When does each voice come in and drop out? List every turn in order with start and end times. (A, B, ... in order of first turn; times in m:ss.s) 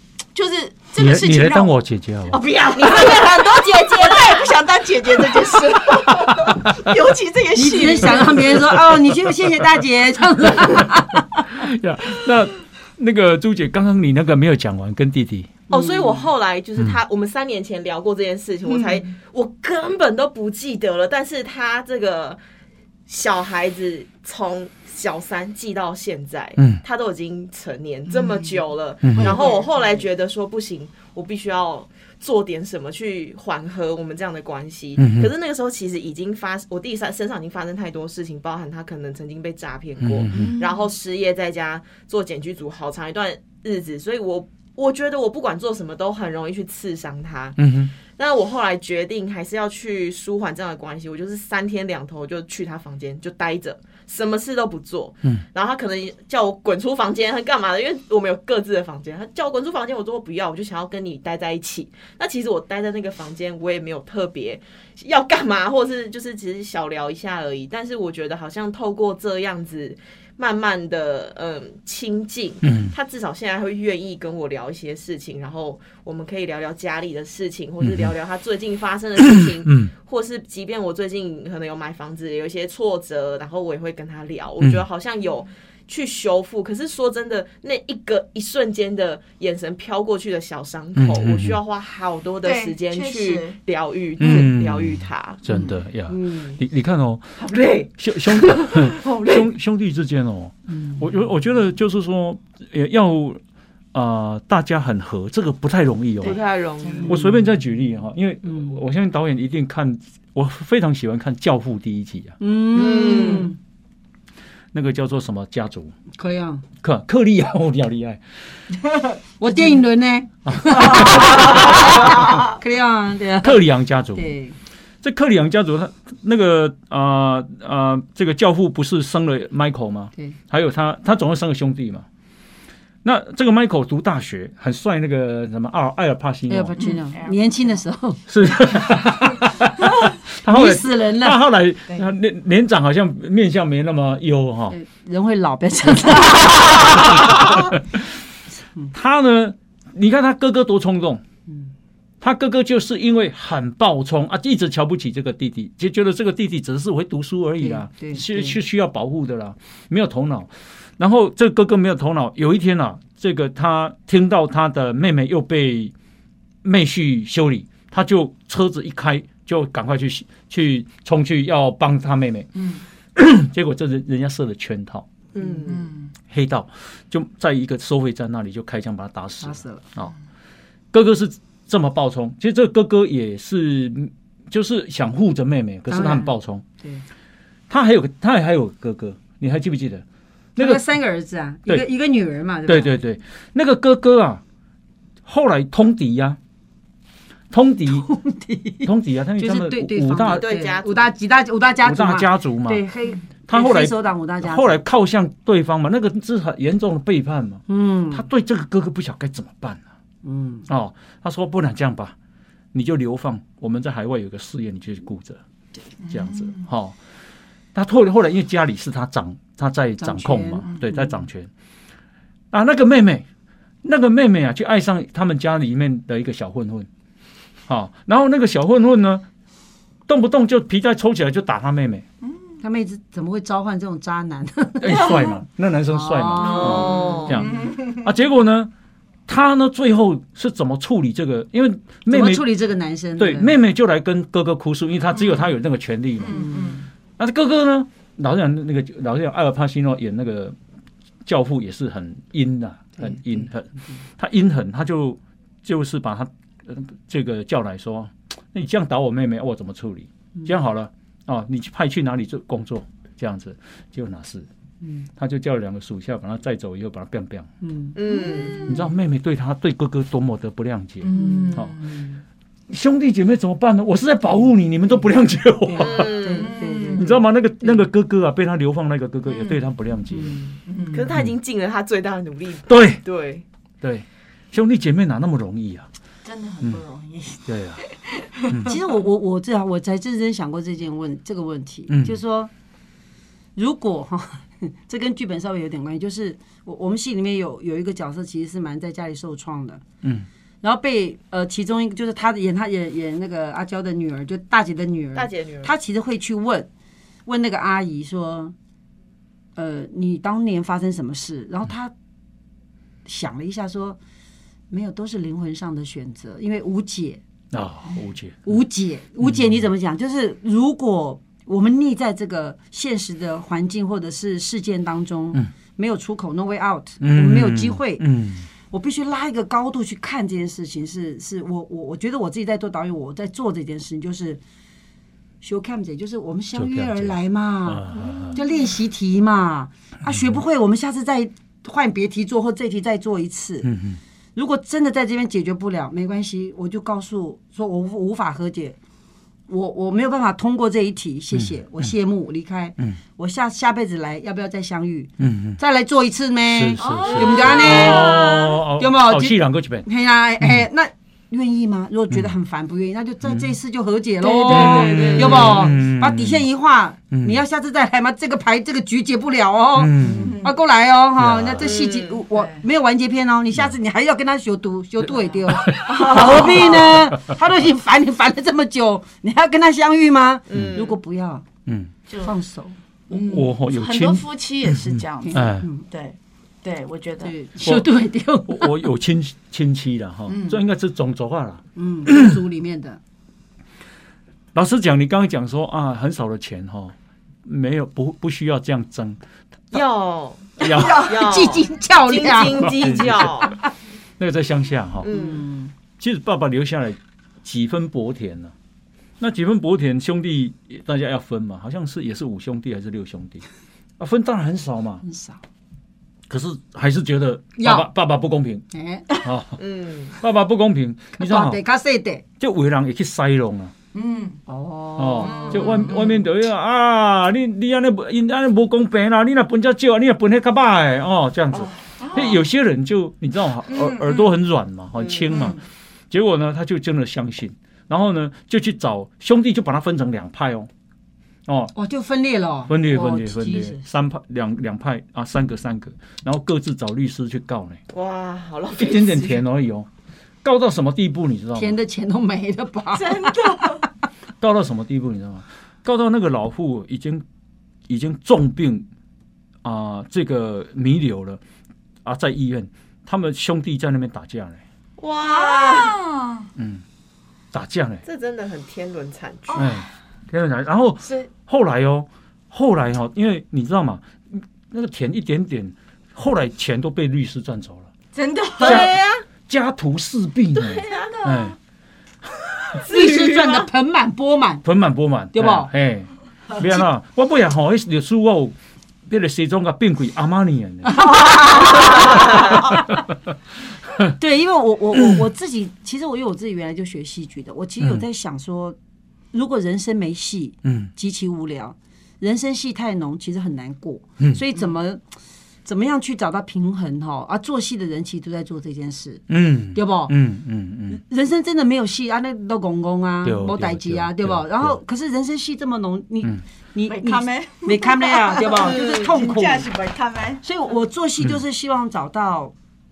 0:00.3-0:01.7 A
0:01.0-0:02.4 B
0:02.3-0:08.8 A
0:02.4-0:04.5 C
0:07.6-0:11.5 D
0:11.5-0:15.5 B
0:15.7-0:22.4 C
0:15.7-0:16.2 A
0:18.6-0:19.1 A
0:23.1-1:35.4 C
0:28.1-0:28.6 A
0:29.0-0:29.4 B
0:29.1-0:30.1 A
0:35.0-0:35.3 B
0:40.0-0:40.6 B
0:40.3-0:40.9 A
0:47.6-0:47.9 B
1:12.6-1:12.9 B
1:17.8-1:18.1 B
1:19.2-1:19.9 B
1:31.0-1:31.6 B
1:32.4-1:33.6 A
1:34.2-1:37.2 B
1:34.2-1:34.5 A
1:36.1-1:36.6 C
1:37.4-1:39.4 C
1:38.0-1:43.4 B
1:39.0-1:39.3 A
1:43.9-1:46.4 B
1:46.2-1:47.2 C
1:46.2-1:47.2 A
1:47.1-1:47.4 D
1:47.1-1:52.4 B
1:52.4-1:53.6 D
1:52.7-1:53.5 C
1:54.7-1:56.0 B
1:56.1-1:56.6 D
1:56.8-1:58.2 B
1:59.4-2:04.6 D
2:00.5-2:01.9 B
2:03.4-2:04.3 B
2:05.0-2:12.0 B
2:13.0-2:16.8 B
2:16.5-2:19.0 D
2:16.8-2:17.7 A
2:18.3-2:24.8 B
2:20.5-2:21.4 D
2:24.7-2:27.7 D
2:26.6-2:27.8 B
2:28.9-2:31.2 B
2:32.2-2:45.9 B
2:37.6-2:38.6 D
2:46.6-2:52.6 B
2:52.6-2:52.8 A
2:53.2-2:55.0 B
2:55.3-2:55.9 C
2:55.6-2:56.1 A
2:56.3-3:00.1 B
2:59.4-2:59.9 D
3:00.9-3:06.6 B
3:05.9-3:07.0 D
3:07.7-3:10.0 B
3:10.6-3:10.8 B
3:10.6-3:12.9 D
3:12.7-3:14.4 B
3:15.3-3:16.4 B
3:17.5-3:18.1 B
3:17.9-3:24.8 D
3:18.8-3:20.4 B
3:20.2-3:21.1 C
3:21.8-3:22.8 B
3:23.5-3:29.8 B
3:27.7-3:28.3 D
3:30.2-3:30.7 D
3:30.7-3:32.2 B
3:32.7-3:35.4 B
3:36.0-3:37.0 B
3:36.1-3:36.6 A
3:37.7-3:41.5 B
3:40.0-3:41.2 D
3:42.5-3:43.3 B
3:43.8-3:46.9 B
3:47.7-3:49.2 B
3:50.1-3:52.0 B
3:52.6-3:55.4 D
3:54.8-3:58.7 B
3:55.9-3:57.5 D
3:56.4-3:57.4 C
3:57.3-3:58.1 A
3:59.3-4:02.5 B
4:02.1-4:03.6 D
4:03.2-4:06.6 B
4:06.2-4:06.9 A
4:06.3-4:06.8 D
4:07.2-4:10.6 B
4:11.3-4:24.5 B
4:13.0-4:14.0 D
4:24.8-4:25.1 D
4:25.2-4:27.5 B
4:27.6-4:28.6 D
4:28.0-4:28.7 C
4:28.2-4:28.8 A
4:28.6-4:31.8 B
4:31.0-4:32.1 A
4:31.1-4:31.9 D
4:32.7-4:36.1 B
4:35.7-4:37.8 D
4:35.8-4:36.6 C
4:36.3-4:37.2 A
4:37.0-4:40.4 B
4:40.1-4:40.4 D
4:40.7-4:41.1 A
4:40.9-4:43.4 C
4:42.7-4:43.0 B
4:43.8-4:45.9 B
4:46.2-4:48.7 A
4:47.5-4:47.8 B
4:48.6-4:52.5 D
4:51.9-4:52.2 B
4:53.6-4:59.8 D
5:00.6-5:06.7 D
5:05.2-5:05.8 C
5:07.3-5:08.5 D
5:09.6-5:11.9 D
5:13.0-5:14.0 D
5:14.7-5:17.2 D
5:17.5-5:18.6 B
5:18.5-5:28.0 D
5:19.2-5:19.5 B
5:27.0-5:28.5 B
5:28.7-5:34.4 D
5:35.4-5:43.7 D
5:36.6-5:38.4 B
5:40.1-5:40.4 B
5:43.6-5:44.0 B
5:44.4-5:48.8 D
5:49.5-6:21.4 D
5:51.4-5:51.9 B
5:55.2-5:55.6 B
5:56.5-5:59.9 B
5:56.8-5:58.5 A
6:03.2-6:03.5 B
6:04.3-6:05.3 A
6:04.4-6:06.4 B
6:04.6-6:05.7 C
6:07.1-6:07.4 B
6:09.8-6:10.3 B
6:10.0-6:10.6 A
6:11.2-6:11.7 B
6:11.6-6:12.2 C
6:12.3-6:12.6 A
6:15.5-6:17.0 A
6:15.6-6:16.4 B
6:20.5-6:21.0 C
6:21.7-6:21.9 B
6:22.1-6:22.4 A
6:22.2-6:22.8 D
6:23.1-6:25.7 B
6:23.1-6:27.4 A
6:25.2-6:25.8 D
6:27.2-6:28.8 D
6:27.6-6:27.9 B
6:28.5-6:32.4 B
6:30.3-6:30.6 A
6:31.8-6:33.0 D
6:34.6-6:39.2 B
6:39.7-6:43.6 C
6:40.6-6:41.0 B
6:40.7-6:41.2 A
6:40.8-6:42.8 D
6:42.6-6:43.3 B
6:44.2-6:45.1 B
6:45.0-6:45.4 C
6:45.1-6:45.7 D
6:46.0-6:48.5 B
6:49.2-6:53.4 B
6:54.0-6:55.0 B
6:55.0-6:55.4 D
6:56.3-6:58.6 B
6:57.6-6:57.9 D
6:58.7-6:59.1 D
6:59.2-6:59.6 B
6:59.6-7:00.2 C
7:00.2-7:01.6 B
7:01.2-7:02.2 D
7:02.4-7:03.7 B
7:03.9-7:04.4 A
7:04.5-7:06.0 D
7:05.0-7:15.6 B
7:05.2-7:06.2 A
7:12.0-7:12.4 A
7:13.7-7:14.3 A
7:15.0-7:15.3 C
7:15.3-7:15.6 A
7:16.1-7:20.7 B
7:21.5-7:21.7 B
7:21.8-7:23.8 D
7:22.7-7:27.8 B
7:27.9-7:29.4 C
7:28.8-7:29.9 B
7:30.4-7:31.8 B
7:31.6-7:33.9 D
7:32.9-7:33.9 A
7:34.4-7:37.2 B
7:37.9-7:38.9 B
7:39.6-7:41.4 B
7:42.0-7:44.6 B
7:45.0-7:46.0 C
7:45.2-7:46.5 A
7:46.6-7:46.8 B
7:47.5-7:48.0 B
7:48.0-7:49.7 C
7:49.5-7:49.8 A
7:49.6-7:57.9 B
7:51.0-7:51.3 A
7:58.1-7:58.9 A
7:58.6-7:59.2 C
7:58.6-8:01.6 B
8:00.6-8:01.6 A
8:02.8-8:03.7 C
8:02.8-8:04.6 D
8:04.6-8:08.6 B
8:05.3-8:05.7 D
8:09.1-8:11.0 B
8:10.9-8:12.7 D
8:11.0-8:12.0 A
8:12.7-8:13.0 B
8:14.2-8:18.8 D
8:19.3-8:25.0 D
8:25.6-8:29.2 D
8:29.3-8:31.0 B
8:29.7-8:30.2 D
8:30.9-8:39.7 D
8:33.2-8:34.8 B
8:36.9-8:40.4 A
8:38.6-8:39.2 C
8:40.4-8:42.5 D